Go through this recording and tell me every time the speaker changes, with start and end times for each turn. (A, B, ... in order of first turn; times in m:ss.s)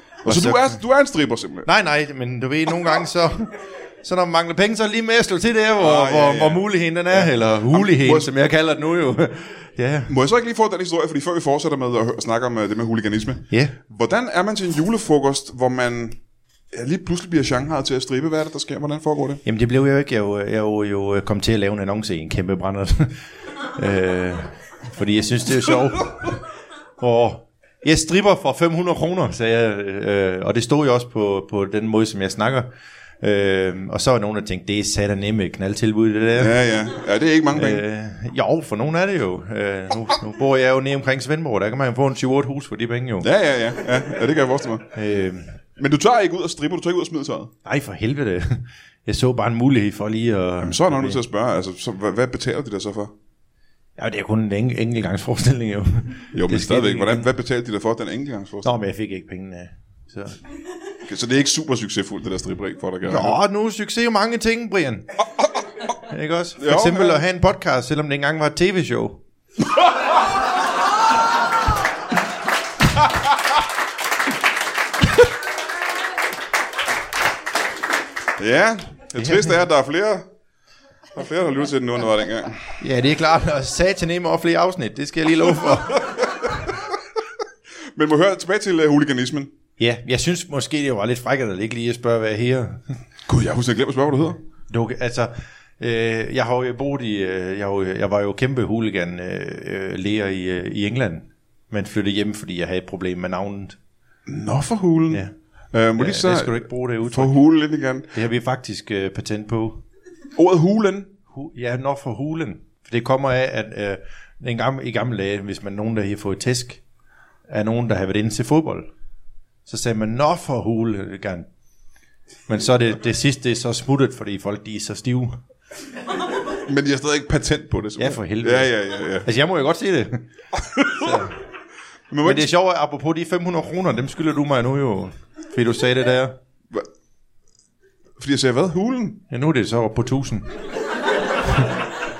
0:00.2-0:00.8 A
0:00.2-0:01.7 B
0:01.6-0:10.1 A
0:05.8-0:08.3 B
0:10.1-0:16.2 B
0:13.5-0:13.8 A
0:16.7-0:19.4 B
0:19.4-0:23.2 A
0:23.8-0:26.4 A
0:27.0-0:32.7 A
0:33.2-0:36.6 A
0:36.4-0:37.8 B
0:37.5-0:43.3 A
0:43.2-0:44.9 B
0:44.9-0:45.6 A
0:45.8-0:47.5 B
0:47.6-0:51.2 A
0:50.6-0:53.1 B
0:54.0-0:57.3 A
0:56.3-0:58.7 B
0:58.6-1:00.4 A
1:01.0-1:03.4 B
1:03.0-1:05.1 A
1:05.4-1:05.9 B
1:06.0-1:09.2 A
1:06.6-1:07.2 B
1:18.4-1:20.2 B
1:19.2-1:19.6 A
1:21.1-1:22.8 B
1:22.8-1:26.0 A
1:26.0-1:26.6 B
1:28.0-1:29.5 B
1:29.8-1:32.9 A
1:33.3-1:34.4 B
1:34.7-1:43.8 A
1:44.3-1:48.1 B
1:46.0-1:47.4 A
1:48.1-1:49.8 A
1:50.4-1:51.2 B
1:51.3-1:56.8 A
1:57.5-1:58.9 A
1:59.6-2:01.5 A
2:02.5-2:05.4 A
2:06.6-2:09.3 B
2:08.0-2:10.2 A
2:10.6-2:11.2 B
2:10.9-2:11.4 A
2:12.1-2:12.5 B
2:12.2-2:16.4 A
2:18.2-2:19.2 B
2:19.3-2:20.5 A